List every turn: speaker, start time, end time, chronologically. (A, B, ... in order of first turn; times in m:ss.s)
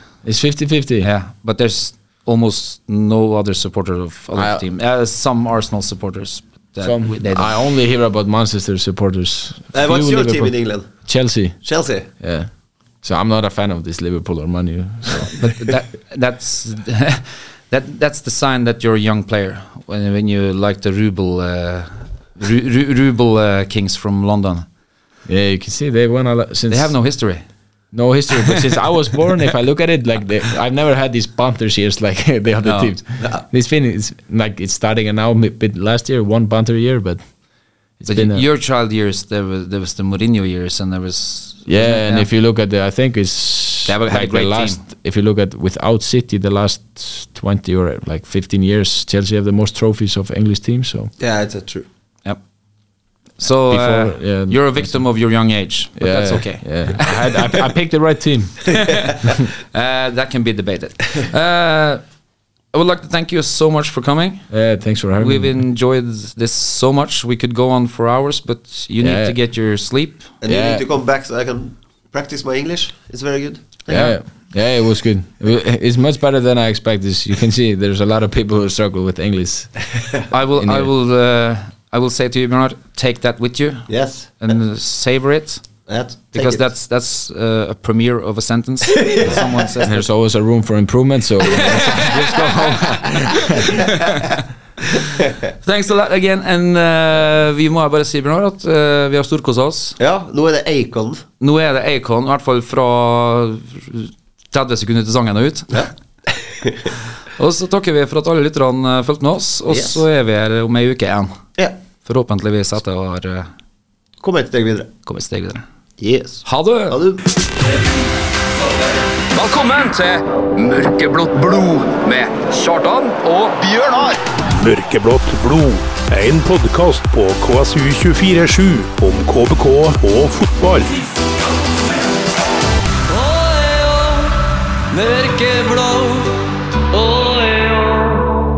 0:00.2-0:01.1 A
0:01.0-0:07.6 B
0:04.3-0:04.6 A
0:06.8-0:15.4 A
0:09.7-0:12.1 C
0:15.3-0:24.7 B
0:25.2-0:27.3 A
0:26.7-0:27.9 B
0:27.9-0:38.5 A
0:32.6-0:33.0 B
0:38.1-0:42.3 B
0:41.7-0:51.1 A
0:43.8-0:44.8 B
0:51.2-0:51.9 C
0:52.2-0:57.7 B
0:53.7-0:59.0 A
0:59.0-1:10.3 B
1:04.5-1:05.6 A
1:09.0-1:09.4 A
1:10.4-1:14.1 C
1:10.5-1:10.8 A
1:13.9-1:14.2 B
1:13.9-1:20.9 A
1:20.3-1:30.0 B
1:23.9-1:24.6 C
1:25.9-1:26.7 C
1:29.1-1:29.6 C
1:29.8-1:33.8 A
1:31.7-1:34.1 B
1:35.6-1:40.0 B
1:40.0-1:41.2 C
1:41.4-1:45.9 B
1:45.7-1:46.8 C
1:47.4-1:53.5 B
1:49.7-1:50.0 C
1:54.2-1:54.9 C
1:55.0-1:55.6 B
1:56.0-1:57.2 C
1:56.4-1:57.0 B
1:59.3-2:04.2 D
2:04.6-2:11.0 E
2:13.1-2:14.3 D
2:14.9-2:16.3 D
2:16.9-2:18.2 D